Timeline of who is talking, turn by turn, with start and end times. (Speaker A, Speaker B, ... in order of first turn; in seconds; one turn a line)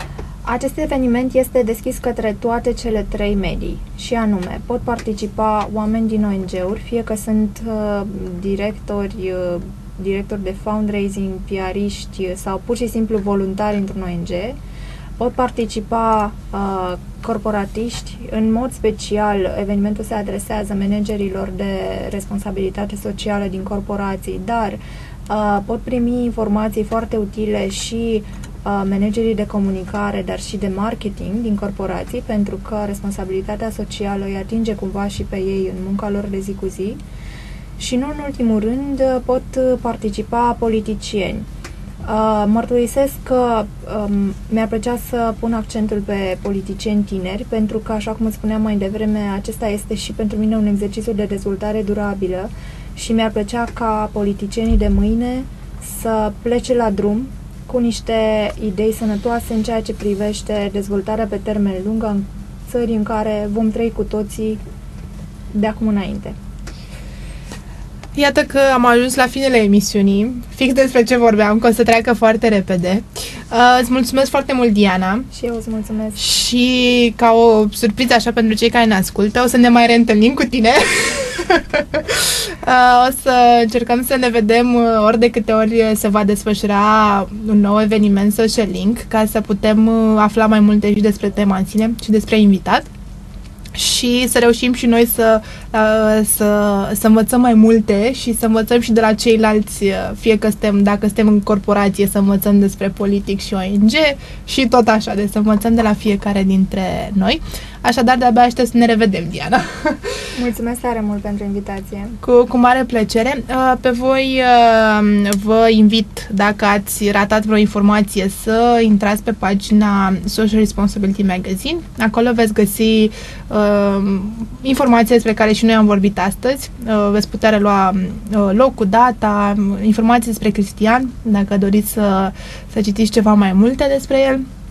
Speaker A: 0.4-14.6
Speaker A: 15.2-37.0
Speaker A: 37.8-41.5
Speaker A: 42.0-64.6
Speaker A: 65.5-66.3
Speaker B: 68.1-75.3
Speaker A: 75.3-76.2
Speaker B: 76.2-92.9
Speaker B: 93.7-110.1
Speaker A: 110.3-112.2
Speaker B: 112.2-134.4